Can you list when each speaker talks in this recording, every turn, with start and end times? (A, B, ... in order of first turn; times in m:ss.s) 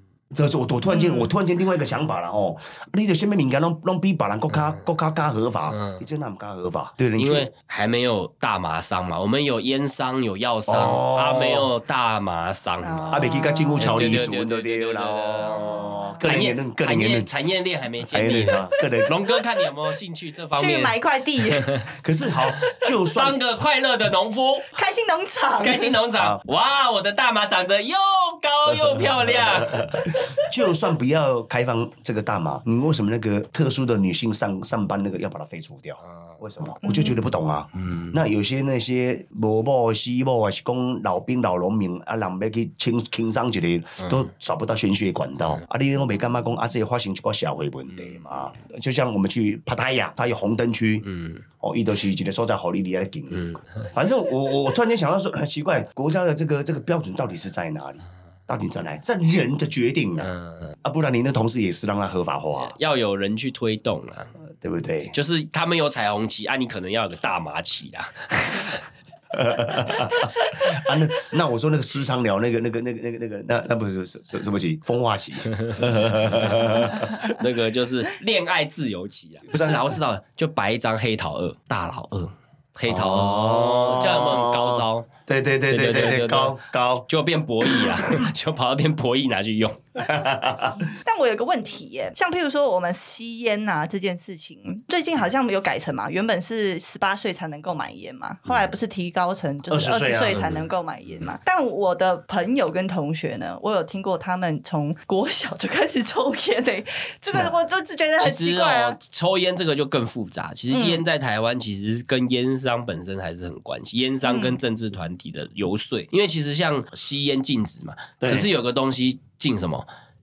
0:00.3-0:07.5 A
0:00.9-0:01.3 B
0:05.7-0:06.0 C
0:07.2-0:21.0 C
0:10.7-0:11.7 A
0:12.8-0:14.0 B
0:13.1-0:17.3 A
0:15.7-0:16.2 B
0:18.0-0:19.1 A
0:18.8-0:19.4 B
0:20.6-0:21.7 B
0:21.9-0:23.4 A
0:23.1-0:24.7 C
0:24.7-0:26.0 B
0:25.6-0:30.0 C
0:28.7-0:51.1 A
0:36.8-0:37.2 B
0:37.8-0:38.2 C
0:47.9-0:48.2 C
0:51.0-0:51.4 C
0:51.6-1:00.3 A
0:53.3-0:53.6 C
1:00.2-1:00.7 C
1:00.8-1:02.7 A
1:02.6-1:04.3 C
1:04.6-1:05.1 A
1:05.1-1:08.8 C
1:09.3-1:17.4 A
1:16.5-1:25.1 C
1:19.5-1:20.0 A
1:22.9-1:27.1 A
1:25.7-1:30.0 C
1:27.6-1:28.1 A
1:30.0-1:30.9 A
1:31.0-1:49.0 B
1:39.7-1:40.6 A
1:40.3-1:40.6 C
1:48.2-1:59.9 C
1:50.7-1:51.0 B
1:54.2-1:54.6 B
1:58.2-1:58.5 A